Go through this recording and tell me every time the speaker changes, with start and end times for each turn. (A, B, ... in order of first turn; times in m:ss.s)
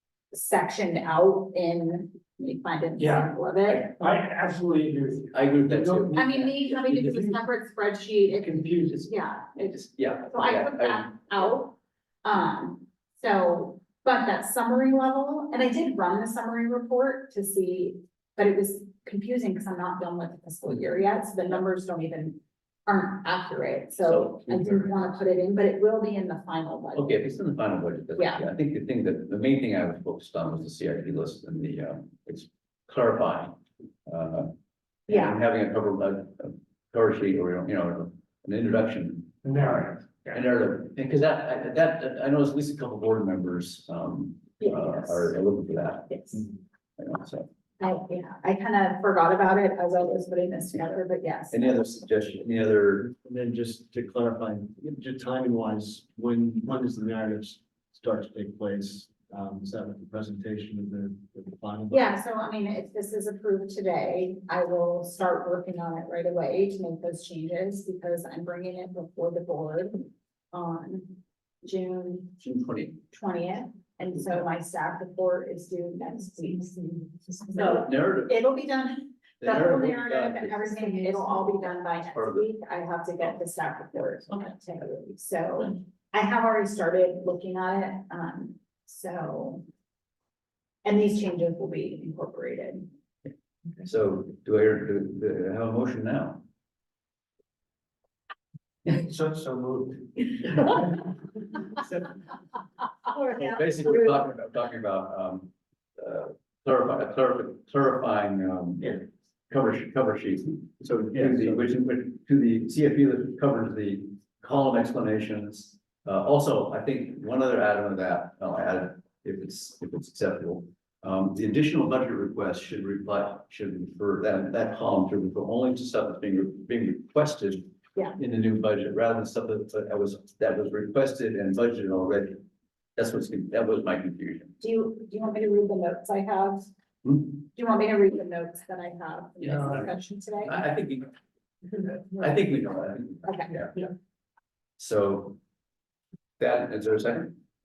0:00.3-0:03.9 A
0:03.0-0:07.4 B
0:05.3-0:06.1 C
0:06.1-0:27.2 A
0:08.3-0:09.1 B
0:09.6-0:11.5 C
0:24.0-0:25.0 C
0:26.9-0:34.5 C
0:28.2-0:28.4 A
0:35.1-0:39.7 C
0:35.1-0:35.4 A
0:39.4-0:40.4 B
0:40.3-0:46.5 C
0:44.6-0:45.3 A
0:46.1-0:46.4 A
0:47.0-0:47.5 C
0:47.8-0:51.8 A
0:51.5-0:53.1 C
0:53.1-1:02.1 D
1:01.9-1:12.3 A
1:12.4-1:13.0 C
1:13.1-1:29.6 A
1:17.5-1:18.4 C
1:19.4-1:21.0 C
1:21.9-1:22.4 C
1:30.8-1:32.9 A
1:33.8-1:36.4 C
1:38.8-1:40.8 D
1:43.1-1:43.9 A
1:43.3-2:12.4 C
2:13.0-2:14.6 C
2:14.6-2:16.7 A
2:17.3-2:20.6 A
2:19.4-2:21.1 C
2:21.7-2:23.9 C
2:23.2-2:23.6 A
2:24.8-2:25.4 C
2:26.4-2:27.3 C